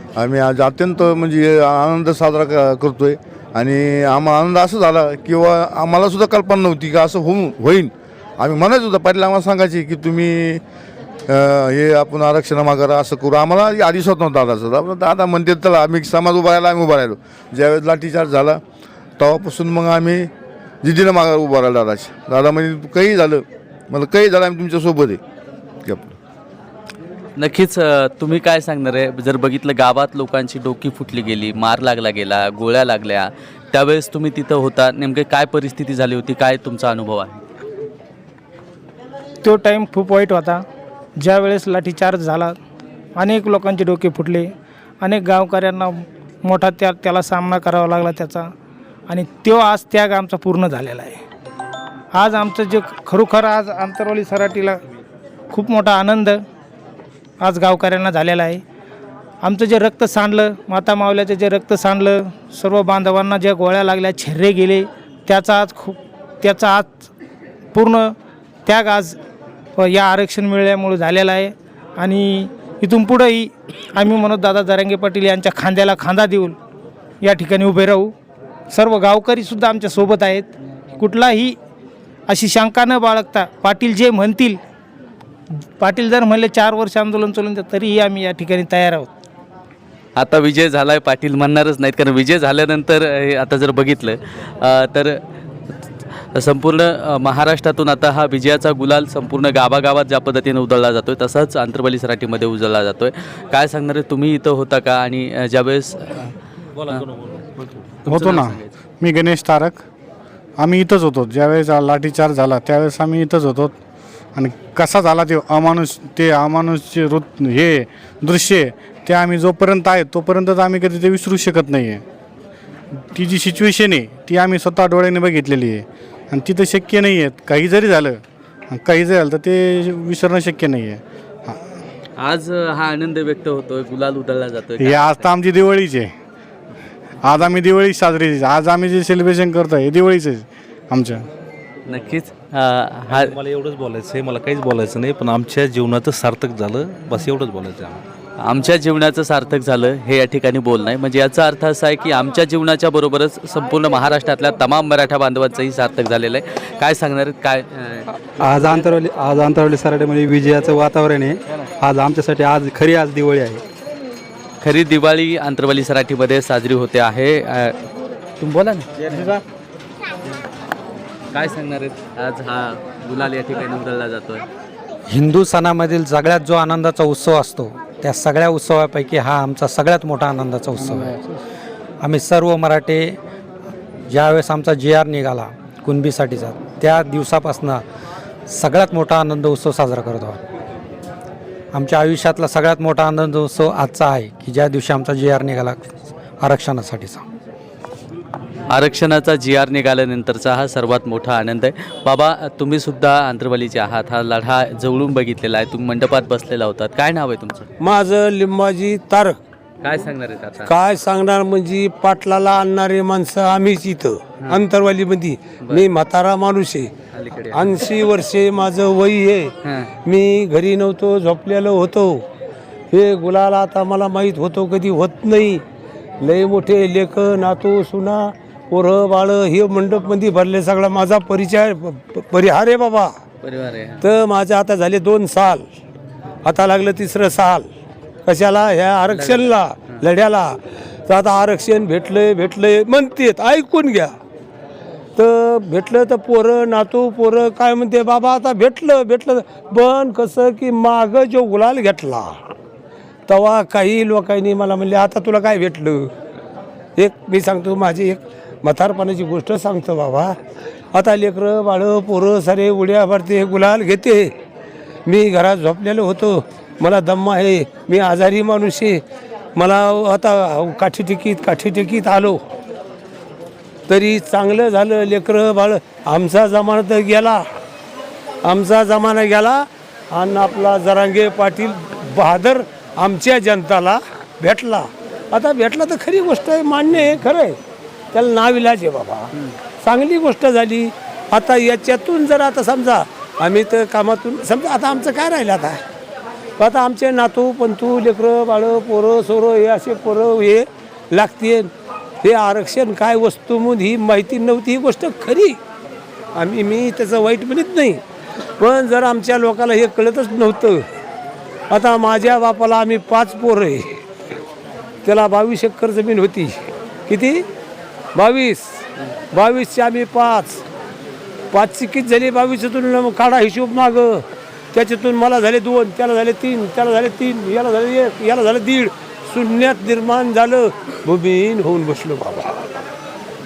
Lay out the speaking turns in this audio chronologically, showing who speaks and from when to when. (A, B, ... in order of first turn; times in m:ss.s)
0:00.2-0:10.6 A
0:11.3-0:18.6 A
0:19.2-0:20.3 A
0:20.8-0:25.2 A
0:25.8-0:26.2 A
0:27.4-0:37.4 B
0:39.4-0:40.6 C
0:41.2-0:42.6 C
0:43.2-0:48.5 C
0:49.1-0:51.2 C
0:52.1-0:54.8 C
0:55.5-0:56.4 C
0:57.4-0:58.6 C
0:59.4-1:07.0 C
1:07.7-1:09.2 C
1:09.8-1:16.6 C
1:17.2-1:18.1 C
1:18.7-1:21.6 C
1:22.3-1:24.6 C
1:25.8-1:29.1 C
1:30.2-1:35.2 B
1:36.3-1:46.3 B
1:46.9-1:47.3 D
1:48.0-1:48.7 B
1:48.0-1:49.8 E
1:50.6-1:53.7 E
1:54.4-2:02.0 E
2:03.1-2:11.6 E
2:12.2-2:15.3 B
2:14.8-2:16.1 E
2:17.2-2:21.2 E
2:21.9-2:23.4 B
2:23.1-2:28.0 D
2:28.4-2:38.1 B
2:38.4-2:43.6 F
2:44.6-2:47.8 B
2:48.4-2:49.3 B
2:51.3-2:54.4 B
2:55.1-3:01.2 G
3:02.0-3:03.2 G
3:04.1-3:07.8 G
3:08.5-3:10.4 G
3:11.7-3:15.9 G
3:16.4-3:17.2 G
3:18.7-3:27.7 B
3:27.8-3:29.4 H
3:29.8-3:30.7 B
3:30.6-3:36.9 H
3:37.1-3:37.8 B
3:37.5-3:39.5 H
3:39.6-3:39.9 B
3:40.0-3:42.2 H
3:42.9-3:45.6 H
3:46.2-3:53.2 H
3:53.4-3:54.0 B
3:54.0-3:55.7 H
3:56.4-3:57.7 H
3:58.3-4:04.1 H
3:59.1-3:59.5 B
4:05.2-4:12.4 H
4:13.3-4:16.1 H
4:17.0-4:20.3 H
4:20.9-4:24.3 H
4:25.1-4:29.0 H
4:29.6-4:32.4 H
4:33.9-4:37.4 H
4:38.4-4:47.6 H
4:48.1-4:55.8 H
4:56.6-5:01.7 H
5:02.2-5:05.6 H
5:06.4-5:08.0 H
5:08.6-5:10.8 H
5:11.7-5:14.0 H
5:15.0-5:17.5 H
5:18.2-5:18.8 H
5:19.3-5:20.6 H
5:21.5-5:32.7 H